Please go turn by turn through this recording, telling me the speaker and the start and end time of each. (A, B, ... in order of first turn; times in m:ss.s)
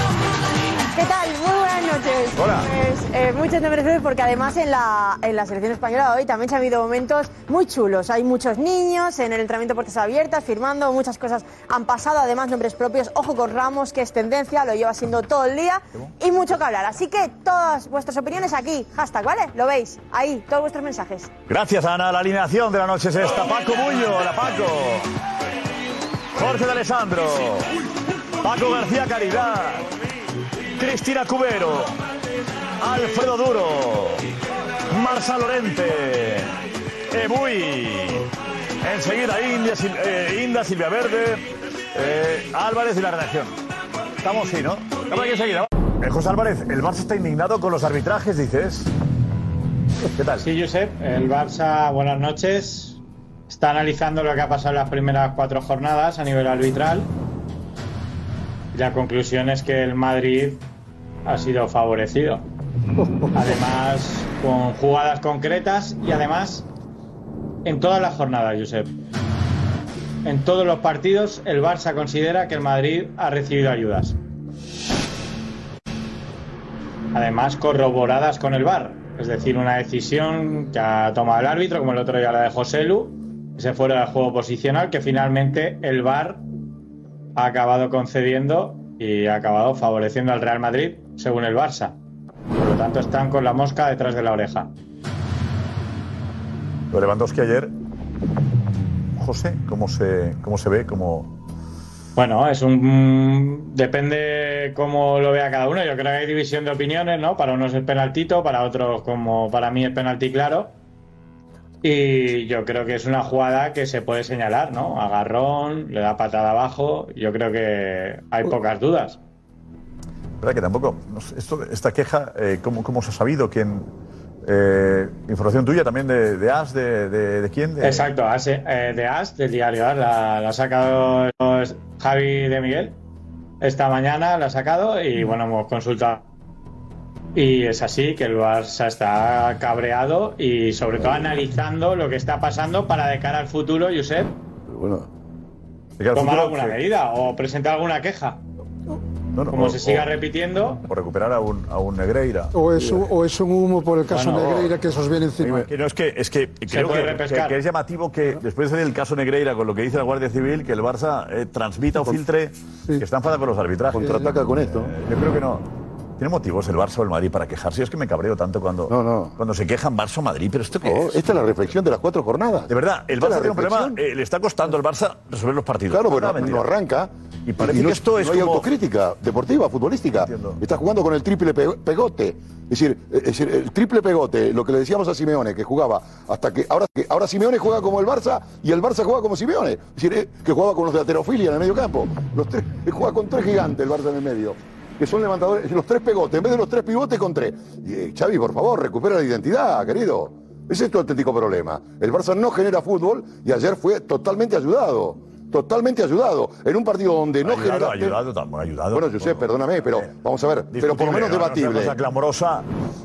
0:00.9-0:21.3 A
0:02.4-0:02.7 B
0:21.5-0:25.1 B
0:26.3-0:27.7 B
0:28.4-0:29.9 B
0:30.8-0:32.0 B
0:32.8-0:34.3 B
0:34.9-0:36.5 B
0:37.1-0:38.3 B
0:38.8-0:43.5 B
0:44.2-0:48.9 B
0:50.0-0:50.4 B
0:50.4-0:57.1 C
0:58.7-1:00.6 C
1:01.2-1:02.4 C
1:03.0-1:03.6 D
1:03.3-1:06.6 C
1:07.6-1:08.9 C
1:10.2-1:14.2 C
1:17.1-1:26.4 C
1:27.4-1:31.9 C
1:32.5-1:34.7 C
1:36.9-1:37.7 B
1:38.7-1:41.3 B
1:42.2-1:50.7 C
1:51.8-1:59.2 C
2:00.4-2:03.9 B
2:04.4-2:08.1 B
2:07.8-2:13.0 C
2:13.6-2:16.2 C
2:17.3-2:24.3 C
2:24.7-2:25.1 E
2:26.0-2:26.8 B
2:26.1-2:28.4 C
2:29.3-2:30.1 B
2:29.5-2:30.8 C
2:30.9-2:32.5 B
2:32.5-2:35.7 D
2:34.1-2:34.7 C
2:35.4-2:45.6 B
2:36.7-2:37.6 C
2:43.9-2:44.9 E
2:46.2-2:51.2 B
2:48.9-2:49.3 E
2:50.8-2:54.0 E
2:52.7-2:56.7 B
2:55.9-3:28.2 E
2:57.4-2:58.7 B
3:00.2-3:00.6 B
3:27.4-3:30.1 B
3:28.9-3:32.0 E
3:30.7-3:32.7 B